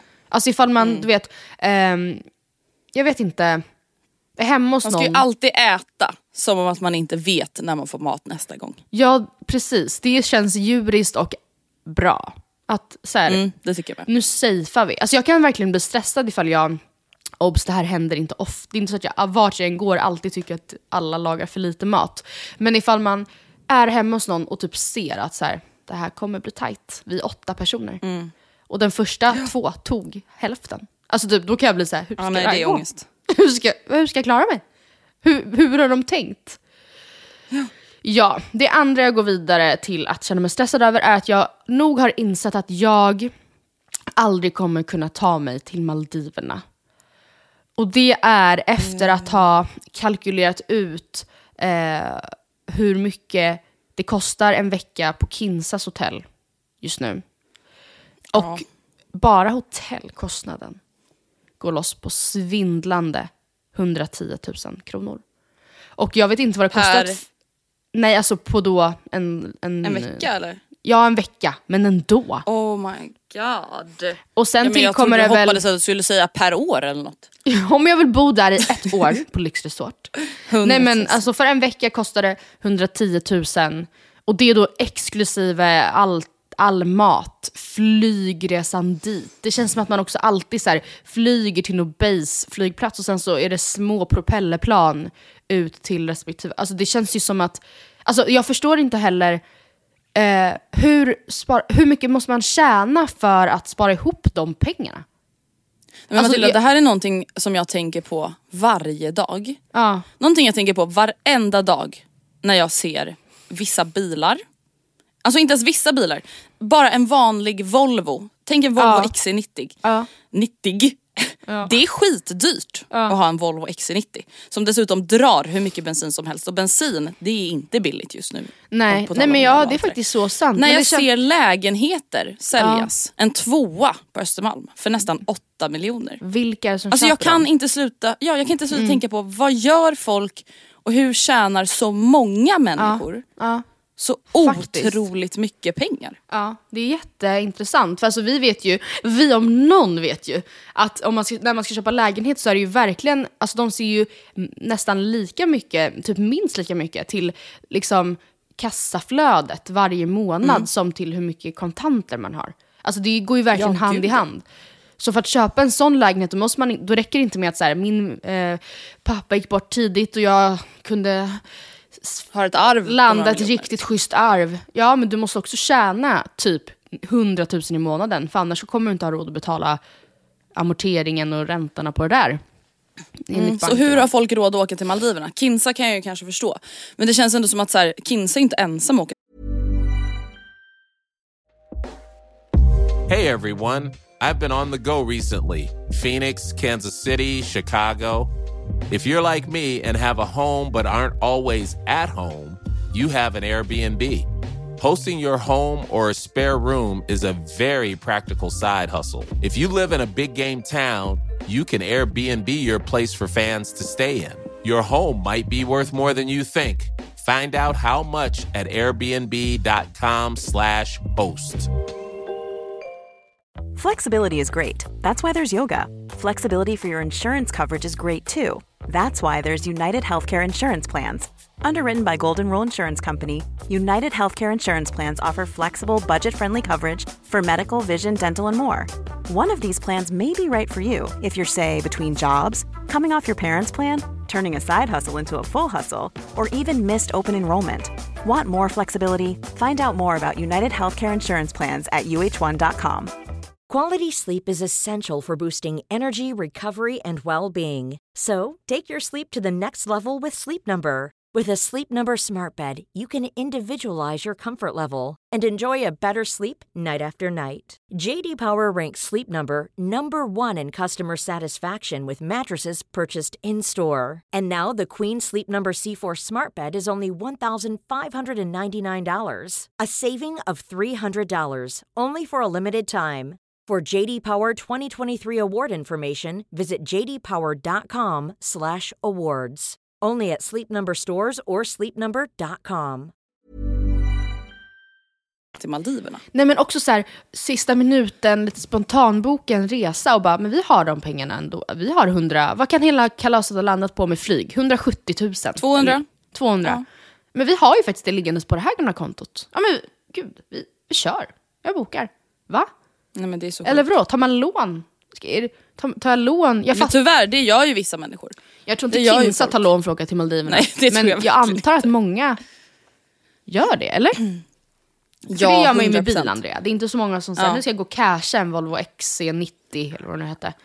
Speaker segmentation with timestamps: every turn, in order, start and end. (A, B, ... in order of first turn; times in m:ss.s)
0:00.3-0:02.2 A
0:00.8-0:01.1 B
0:02.9-0:03.6 A
0:04.4-0:05.2 A
0:04.8-0:08.8 B
0:08.9-0:13.4 A
0:13.3-0:14.1 B
0:14.0-0:16.8 A
0:17.4-0:28.0 A
0:28.0-0:28.3 B
0:28.7-0:34.6 A
0:32.2-0:33.0 B
0:35.2-0:36.6 A
0:38.0-0:43.3 A
0:44.2-0:46.6 A
0:47.8-0:56.2 A
0:48.8-0:49.4 B
0:56.8-0:57.2 A
0:58.3-0:58.6 B
0:58.3-0:58.6 A
0:59.1-1:00.8 A
1:01.6-1:05.2 A
1:06.0-1:07.2 A
1:06.7-1:07.2 B
1:07.9-1:10.2 A
1:09.8-1:10.6 B
1:10.8-1:12.4 A
1:12.4-1:17.3 B
1:14.4-1:15.6 A
1:17.4-1:39.4 A
1:20.5-1:21.2 B
1:40.1-1:45.0 A
1:46.1-1:49.6 B
1:46.2-1:46.6 A
1:49.7-1:50.0 A
1:50.2-1:54.4 B
1:55.2-1:59.8 B
1:58.8-1:59.1 A
1:59.8-2:00.1 A
2:00.3-2:10.0 B
2:08.7-2:11.1 A
2:10.6-2:16.2 B
2:12.6-2:12.9 A
2:16.2-2:17.4 A
2:16.9-2:23.2 B
2:18.7-2:19.0 A
2:22.8-2:23.6 A
2:24.0-2:26.2 B
2:24.3-2:25.0 A
2:26.3-2:44.4 A
2:40.4-2:40.7 B
2:43.5-2:44.2 B
2:45.0-2:51.4 A
2:52.0-2:52.3 A
2:52.3-2:53.8 B
2:52.8-2:59.8 A
3:00.6-3:02.4 A
3:03.3-3:04.1 A
3:03.3-3:09.1 B
3:13.1-3:18.3 C
3:18.9-3:24.2 C
3:24.8-3:41.7 C
3:43.8-4:13.1 D
4:13.7-4:53.1 E
4:55.6-4:56.2 B
4:56.3-5:06.8 A
5:05.6-5:06.0 B
5:07.3-5:12.7 A
5:13.1-5:13.8 B
5:13.6-5:17.0 A
5:16.7-5:18.4 B
5:18.7-5:22.4 A
5:18.9-5:19.7 B
5:20.5-5:21.9 B
5:23.5-5:24.2 A
5:25.3-5:26.4 B
5:25.3-5:30.5 A
5:27.4-5:27.6 B